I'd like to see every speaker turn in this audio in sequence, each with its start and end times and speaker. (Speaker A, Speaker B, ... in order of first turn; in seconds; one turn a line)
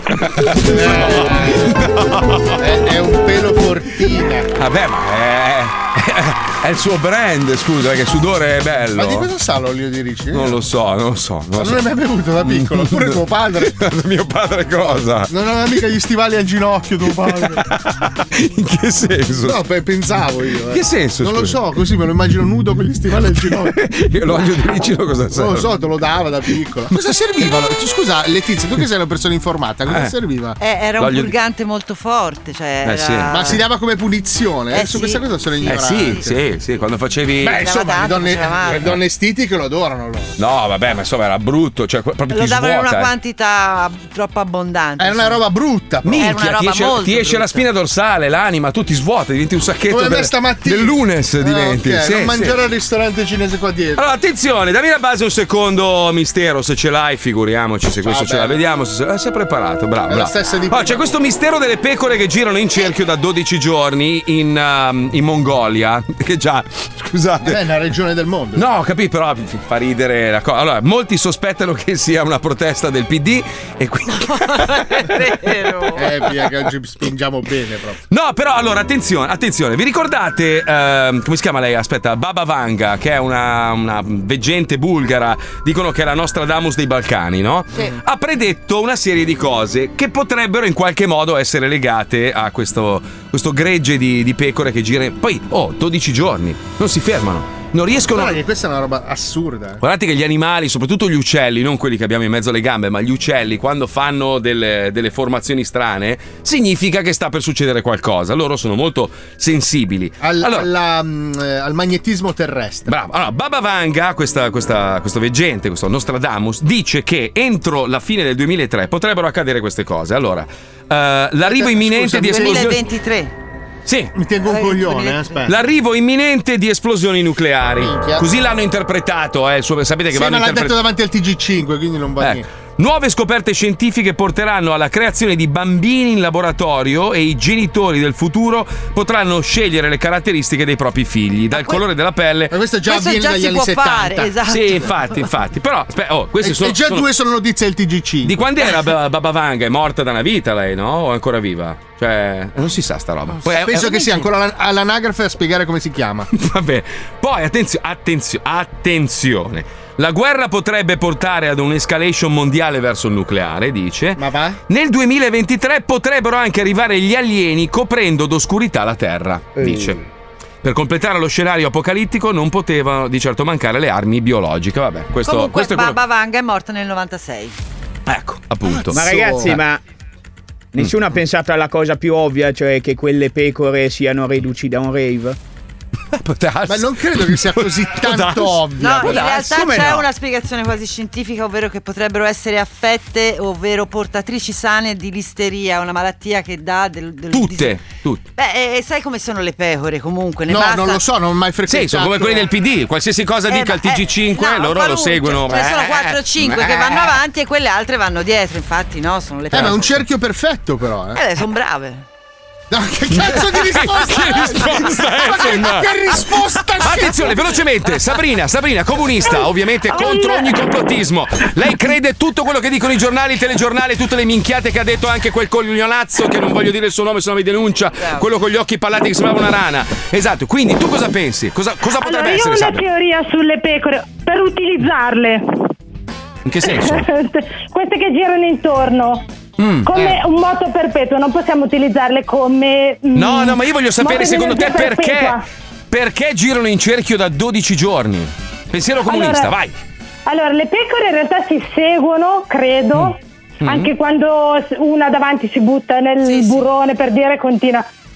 Speaker A: 0.3-2.6
Speaker B: 0.6-1.7
Speaker B: 2.6-4.5
Speaker A: 4.6-9.3
Speaker B: 8.9-10.6
Speaker A: 10.3-11.9
Speaker B: 11.6-13.8
Speaker A: 12.4-15.3
Speaker B: 15.3-17.7
Speaker A: 17.3-19.6
Speaker B: 19.4-23.7
Speaker A: 20.7-21.6
Speaker A: 23.3-25.8
Speaker B: 25.3-30.6
Speaker A: 29.9-30.1
Speaker C: 30.6-33.6
Speaker A: 31.0-31.3
Speaker A: 32.8-33.6
Speaker B: 33.3-36.4
Speaker C: 34.7-36.2
Speaker A: 35.6-37.6
Speaker B: 37.4-40.3
Speaker C: 37.5-39.0
Speaker A: 38.7-39.0
Speaker A: 40.4-43.1
Speaker C: 42.3-45.4
Speaker B: 45.0-46.4
Speaker A: 46.0-52.5
Speaker C: 46.2-47.6
Speaker B: 49.9-54.0
Speaker A: 54.0-67.6
Speaker B: 58.0-58.6
Speaker B: 60.1-61.1
Speaker B: 67.4-68.7
Speaker A: 68.5-75.1
Speaker C: 74.1-76.1
Speaker B: 75.9-78.0
Speaker A: 78.1-98.4
Speaker B: 98.1-99.8
Speaker A: 99.8-110.7
Speaker B: 110.2-112.9
Speaker A: 112.9-122.8
Speaker B: 121.4-122.5
Speaker C: 122.2-123.3
Speaker A: 123.8-124.1
Speaker B: 124.1-125.5
Speaker C: 124.4-125.5
Speaker A: 125.5-130.8
Speaker B: 127.8-128.2
Speaker B: 130.1-132.4
Speaker A: 132.2-142.5
Speaker C: 141.5-141.8
Speaker B: 142.5-144.8
Speaker C: 142.8-145.3
Speaker A: 144.4-147.1
Speaker B: 146.4-148.4
Speaker A: 148.2-154.3
Speaker B: 153.4-156.3
Speaker A: 156.3-170.0
Speaker B: 164.2-164.6
Speaker B: 169.6-169.9
Speaker A: 170.6-176.0
Speaker C: 175.2-177.5
Speaker A: 178.1-179.6
Speaker B: 178.9-179.6
Speaker D: 178.9-179.8
Speaker D: 180.7-185.4
Speaker A: 186.1-190.0
Speaker B: 186.7-189.2
Speaker C: 188.8-197.8
Speaker D: 189.2-190.0
Speaker A: 197.3-198.2
Speaker C: 198.3-201.0
Speaker B: 200.5-202.5
Speaker A: 201.7-206.9
Speaker C: 203.5-210.0
Speaker B: 206.8-207.1
Speaker B: 209.5-211.2
Speaker C: 211.1-212.1
Speaker B: 212.7-217.4
Speaker A: 213.1-232.8
Speaker E: 219.2-220.5
Speaker E: 232.0-235.7
Speaker A: 236.4-237.1
Speaker E: 236.6-239.2
Speaker A: 239.6-240.2
Speaker E: 239.8-245.4
Speaker A: 243.1-245.4
Speaker A: 245.9-249.7
Speaker E: 249.0-249.5
Speaker E: 250.3-257.9
Speaker A: 253.6-253.9
Speaker C: 256.2-256.6